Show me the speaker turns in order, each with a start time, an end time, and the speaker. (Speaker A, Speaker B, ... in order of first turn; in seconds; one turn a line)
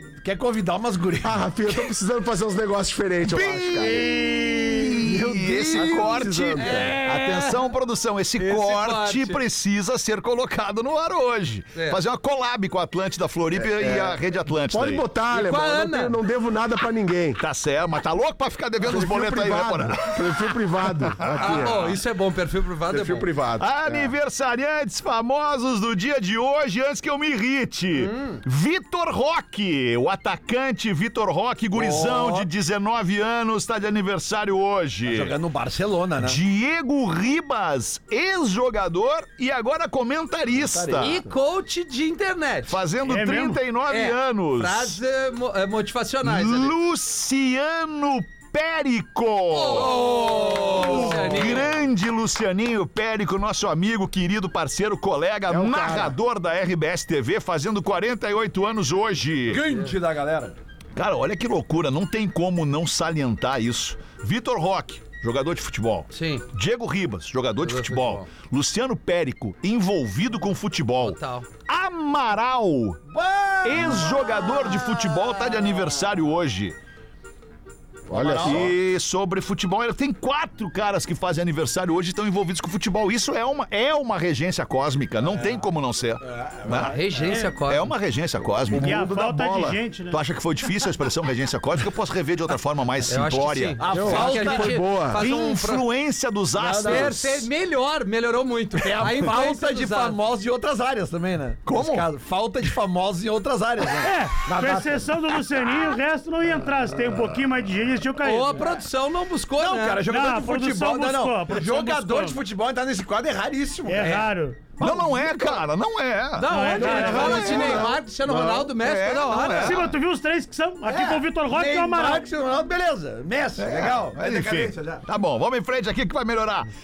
Speaker A: 0.2-1.5
Speaker B: 1.2-4.2
Speaker C: 3.3-15.1
Speaker D: 3.9-4.7
Speaker B: 5.0-7.0
Speaker E: 6.6-7.7
Speaker E: 8.4-9.4
Speaker B: 13.6-17.4
Speaker E: 15.3-16.2
Speaker C: 17.4-20.5
Speaker B: 18.8-22.0
Speaker C: 21.0-21.7
Speaker E: 21.4-23.3
Speaker B: 22.9-24.1
Speaker C: 23.6-35.4
Speaker A: 31.7-32.5
Speaker A: 35.0-36.4
Speaker C: 36.2-41.2
Speaker A: 40.5-41.3
Speaker E: 41.0-42.8
Speaker C: 42.7-45.0
Speaker D: 43.0-43.6
Speaker E: 43.9-46.8
Speaker C: 46.2-50.1
Speaker E: 49.5-51.7
Speaker A: 49.7-51.7
Speaker C: 50.9-59.7
Speaker B: 55.5-56.2
Speaker A: 59.5-60.6
Speaker C: 61.0-73.0
Speaker E: 66.1-66.5
Speaker E: 67.6-68.3
Speaker E: 71.0-71.5
Speaker A: 73.1-76.1
Speaker C: 73.6-76.8
Speaker A: 78.1-78.8
Speaker B: 78.1-78.7
Speaker C: 78.2-87.0
Speaker A: 85.2-85.7
Speaker A: 86.2-87.5
Speaker E: 86.8-87.9
Speaker C: 87.7-94.3
Speaker B: 88.7-89.8
Speaker D: 88.8-90.2
Speaker E: 93.1-95.9
Speaker A: 93.8-95.3
Speaker B: 93.9-95.2
Speaker C: 95.1-97.5
Speaker A: 96.5-97.2
Speaker E: 96.8-100.2
Speaker A: 98.8-105.2
Speaker C: 101.7-102.1
Speaker D: 104.0-108.6
Speaker E: 108.2-110.1
Speaker A: 109.6-115.7
Speaker D: 110.1-112.4
Speaker D: 113.9-114.6
Speaker C: 114.8-117.9
Speaker E: 116.4-119.8
Speaker D: 116.5-117.6
Speaker A: 116.8-117.9
Speaker B: 117.0-118.6
Speaker C: 118.7-119.9
Speaker D: 119.6-122.3
Speaker A: 120.8-125.0
Speaker C: 123.6-126.7